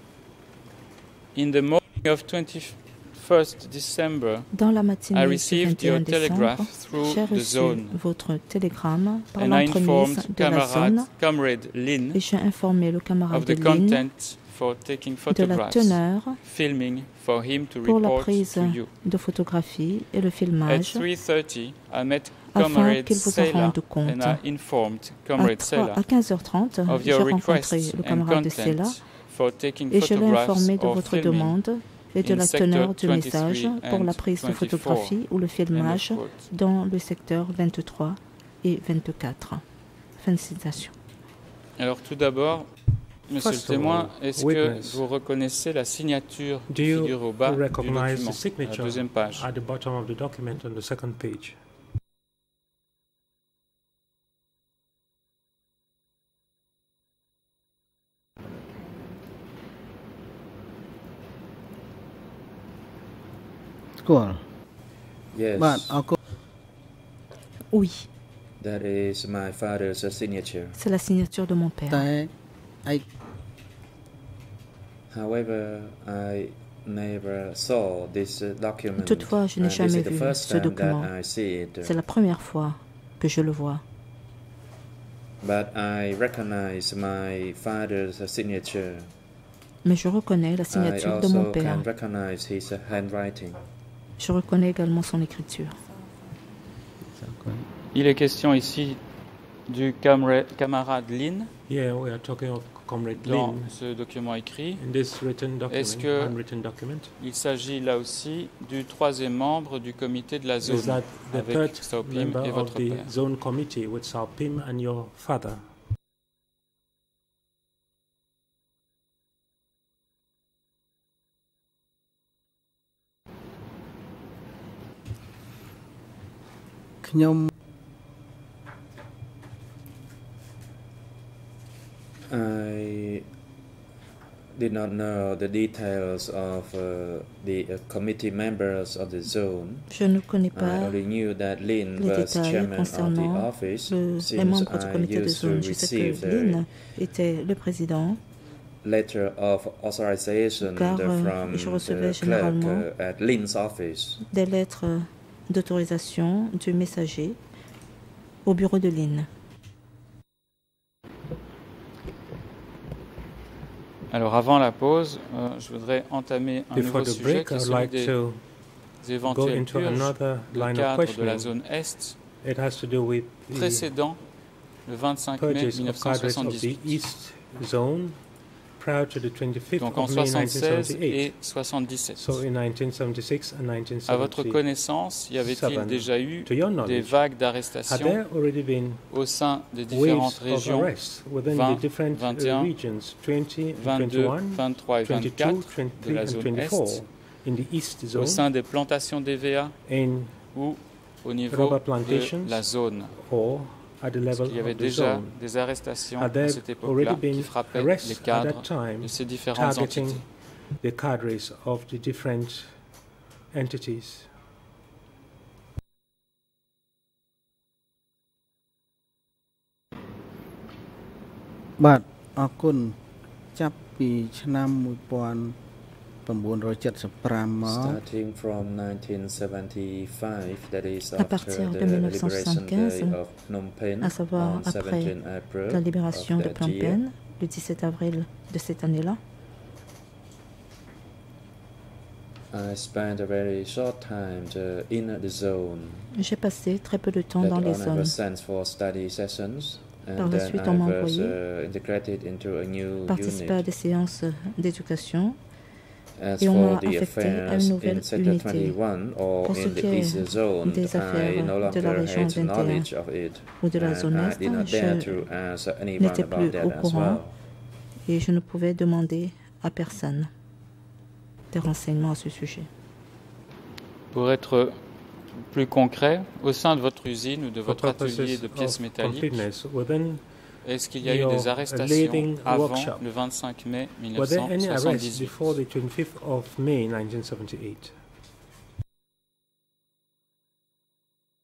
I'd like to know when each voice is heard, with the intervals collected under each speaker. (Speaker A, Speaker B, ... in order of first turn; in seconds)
Speaker A: 1.4-4.5, 5.1-8.0, 9.4-12.2, 13.3-18.9, 20.6-26.1, 26.9-31.6, 32.2-35.2, 35.7-36.5, 41.8-42.7, 43.3-49.5, 97.9-99.0, 99.7-101.5, 103.2-104.8, 105.7-106.5, 107.2-113.1, 164.1-168.1, 169.0-172.2, 173.5-174.2, 174.9-177.0, 179.8-182.4, 184.1-188.2, 189.1-190.9, 191.5-192.7, 193.8-197.0, 198.2-199.8, 200.5-203.2, 204.3-210.2, 274.1-274.8, 275.4-279.4, 280.6-285.6
Speaker B: 4.5-11.1, 12.1-14.1, 15.3-16.4, 17.8-21.1, 22.5-24.4, 25.4-29.1, 29.9-39.6, 40.2-40.9, 67.7-68.1, 70.8-72.1, 79.0-81.1, 81.8-83.8, 89.8-91.9, 94.2-95.8, 139.9-141.1, 142.0-148.2, 150.6-152.9, 154.3-157.4, 158.4-159.3, 231.2-233.2, 234.0-239.2, 246.1-248.2, 250.2-251.4, 253.1-255.4, 256.4-258.8, 259.4-262.9, 263.6-265.3, 266.0-267.2, 268.1-270.3, 271.5-272.7
Speaker C: 43.4-45.0, 46.7-51.6, 101.7-103.8, 104.8-107.1, 110.6-115.7, 166.7-168.4, 169.2-171.6, 172.4-173.9, 175.4-178.2, 178.8-181.3, 182.2-184.6, 185.3-187.2, 187.8-189.1, 189.9-198.4, 199.9-200.4, 201.5-205.3, 206.2-210.3, 210.8-212.7, 213.5-214.3, 277.7-280.2, 281.0-283.0, 284.1-287.9
Speaker D: 64.0-64.4, 65.6-66.2, 71.9-72.3, 97.1-97.7, 127.0-127.5, 221.8-223.0, 223.5-225.6, 226.2-228.0
Speaker E: 65.3-66.0, 68.6-70.8, 75.1-82.0, 85.4-89.1, 90.7-93.6, 132.3-133.3, 134.5-139.9, 140.5-146.7, 148.8-154.2, 227.7-237.0, 242.5-246.1, 247.4-253.7, 256.2-267.3